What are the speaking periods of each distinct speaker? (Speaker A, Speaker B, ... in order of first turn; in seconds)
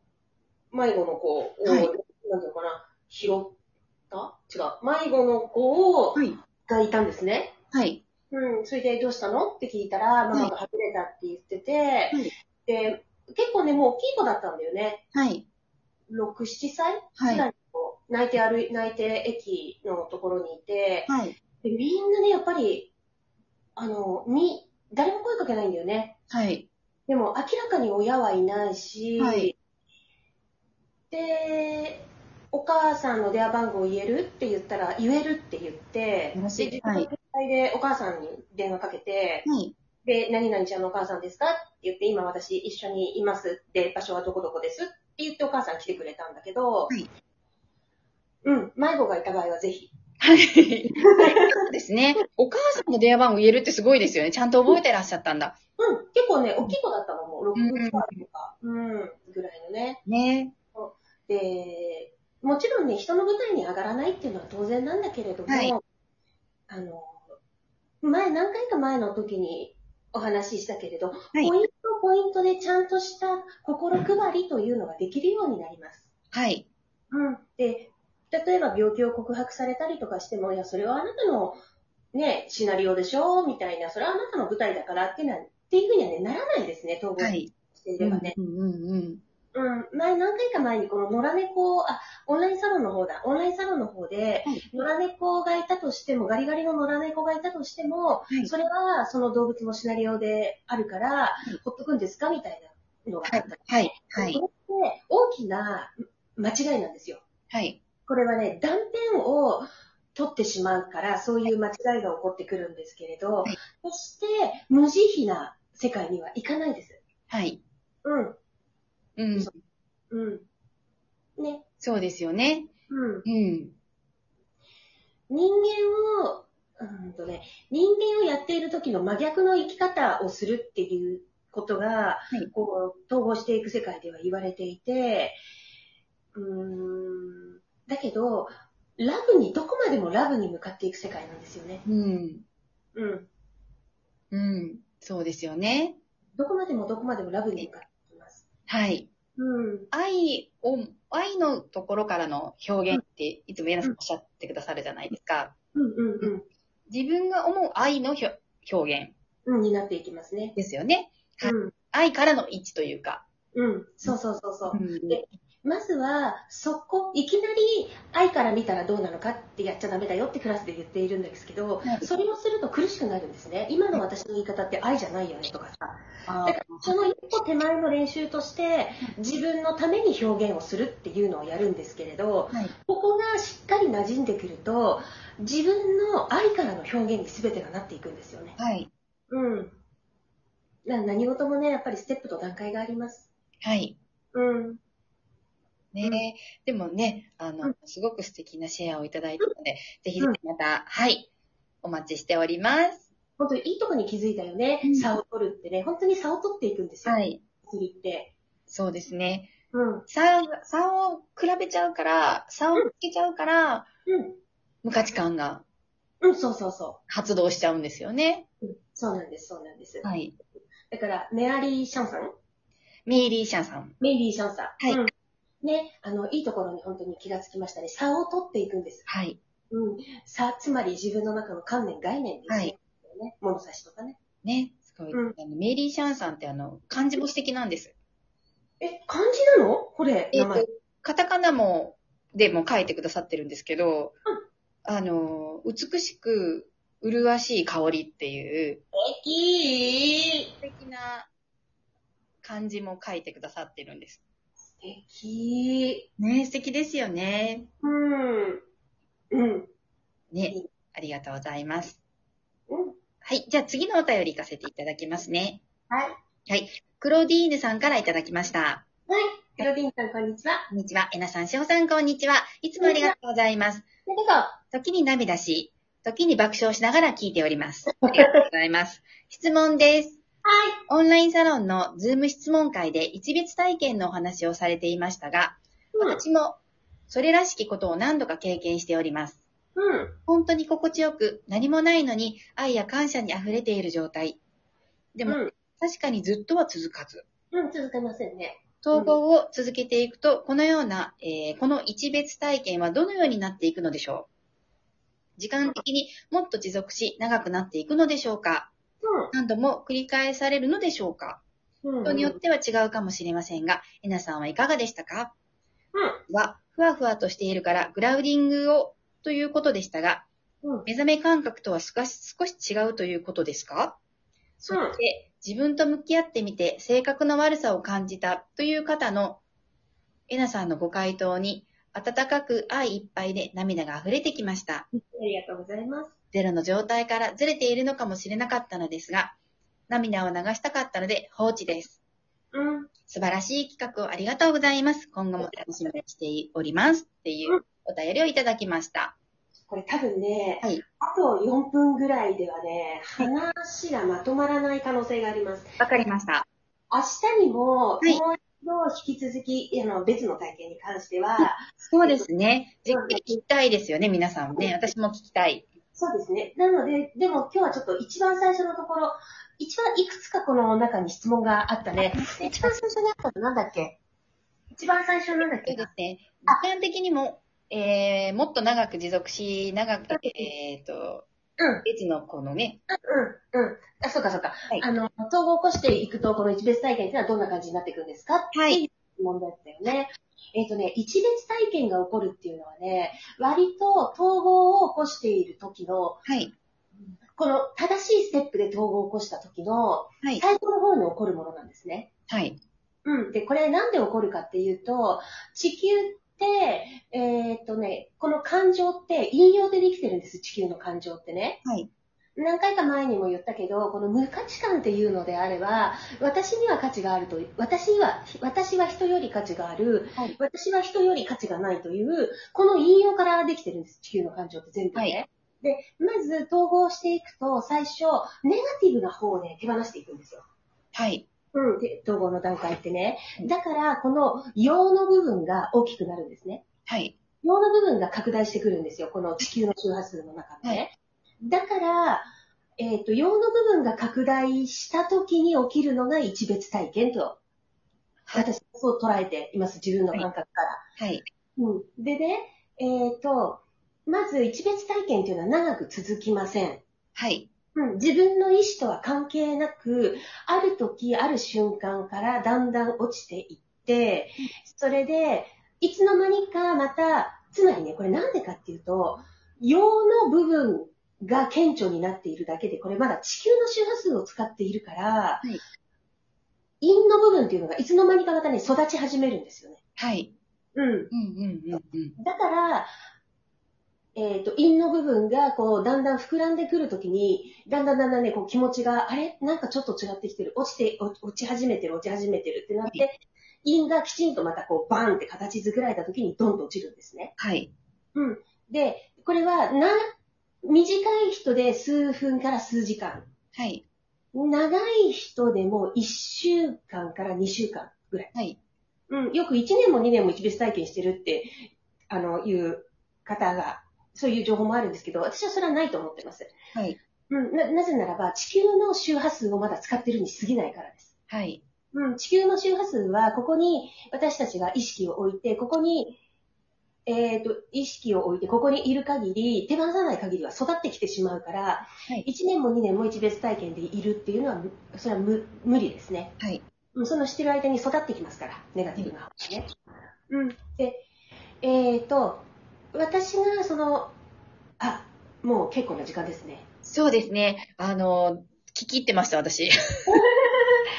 Speaker A: 0.7-3.6, 4.1-7.5, 8.3-15.0, 16.1-21.1, 21.6-22.9, 23.8-26.2, 27.1-29.6, 31.1-39.5, 40.0-46.9, 48.5-49.9, 55.8-60.0, 60.8-65.8, 66.7-67.3, 68.0-76.1, 77.1-81.6, 82.1-88.3, 89.5-107.2, 108.1-117.0, 118.0-118.4, 120.1-120.5, 121.4-121.7, 122.9-123.3, 125.3-135.4, 136.3-141.8, 142.9-143.3, 146.4-148.4, 149.4-149.9, 155.8-156.4, 159.5-160.6, 161.4-161.7, 163.6-188.6, 189.3-189.8, 190.9-193.3, 194.3-194.8, 203.4-208.3, 209.7-210.1, 214.1-214.4, 216.2-217.0, 218.6-220.1, 220.9-222.3, 224.0-229.1, 229.7-234.2, 235.1-235.4, 238.8-240.7, 249.0-250.5, 254.7-256.1, 257.8-258.6, 259.3-259.7, 262.7-263.0, 269.1-270.6, 272.8-273.1, 274.1-274.6, 278.1-278.4, 280.5-280.8, 286.0-286.2, 289.8-290.1, 295.3-295.5, 297.5-299.2, 309.0-309.3, 311.8-312.4, 315.9-316.2, 324.7-325.0, 334.9-336.1, 342.5-342.9, 349.7-355.8, 356.9-362.2, 362.9-363.4, 366.0-374.0, 374.7-375.9, 380.1-380.5, 381.6-381.9, 382.9-396.2, 397.3-402.1, 403.1-411.6, 412.4-430.4, 431.5-436.6, 437.4-447.4, 448.3-450.8, 451.6-456.8, 457.8-475.5, 476.8-479.8, 480.8-481.1, 481.7-482.9, 484.2-497.3, 498.1-500.0, 500.6-503.3, 504.3-508.3, 509.1-511.6, 512.1-516.5, 517.3-521.1, 521.9-526.2, 527.1-536.3, 537.0-539.7, 540.3-541.0, 541.6-544.1, 544.8-546.6, 550.1-550.6
Speaker B: 7.7-8.0, 15.1-15.5, 17.2-17.5, 21.1-21.4, 26.3-26.7, 29.2-29.5, 36.3-37.1, 39.5-39.8, 50.2-55.6, 57.5-58.2, 60.1-60.5, 65.5-65.7, 76.3-76.7, 87.2-89.2, 103.3-104.4, 107.5-107.8, 117.3-117.6, 119.2-119.5, 121.8-122.7, 123.2-123.8, 141.9-142.4, 144.3-146.0, 148.7-149.1, 149.9-155.5, 156.9-159.2, 160.6-163.2, 164.7-165.2, 171.8-172.1, 176.3-177.0, 188.6-188.9, 193.6-194.0, 195.9-201.3, 201.8-203.1, 204.8-205.1, 207.1-207.4, 208.7-209.5, 210.1-213.9, 214.8-215.6, 217.1-218.5, 220.0-220.3, 223.1-224.0, 229.1-229.4, 232.5-232.7, 234.4-237.9, 240.3-244.2, 244.8-248.8, 250.6-251.3, 252.4-254.2, 256.2-257.7, 260.3-262.0, 263.2-265.6, 266.5-268.8, 270.7-273.9, 274.7-280.2, 280.9-289.4, 290.3-294.4, 295.1-297.2, 298.8-304.3, 305.4-308.7, 309.3-311.4, 312.0-315.3, 316.3-320.3, 320.9-324.0, 324.6-329.4, 330.3-334.9, 336.3-339.4, 339.9-342.0, 343.1-349.1, 355.8-356.5, 361.4-365.7, 372.1-372.7, 375.7-381.3, 381.9-382.8, 388.5-388.8, 396.2-396.5, 402.3-402.6, 411.6-411.9, 430.9-431.2, 436.9-437.1, 451.0-451.3, 457.2-457.5, 480.0-480.3, 481.1-482.2, 497.4-497.7, 503.5-503.8, 521.3-521.6, 546.8-550.2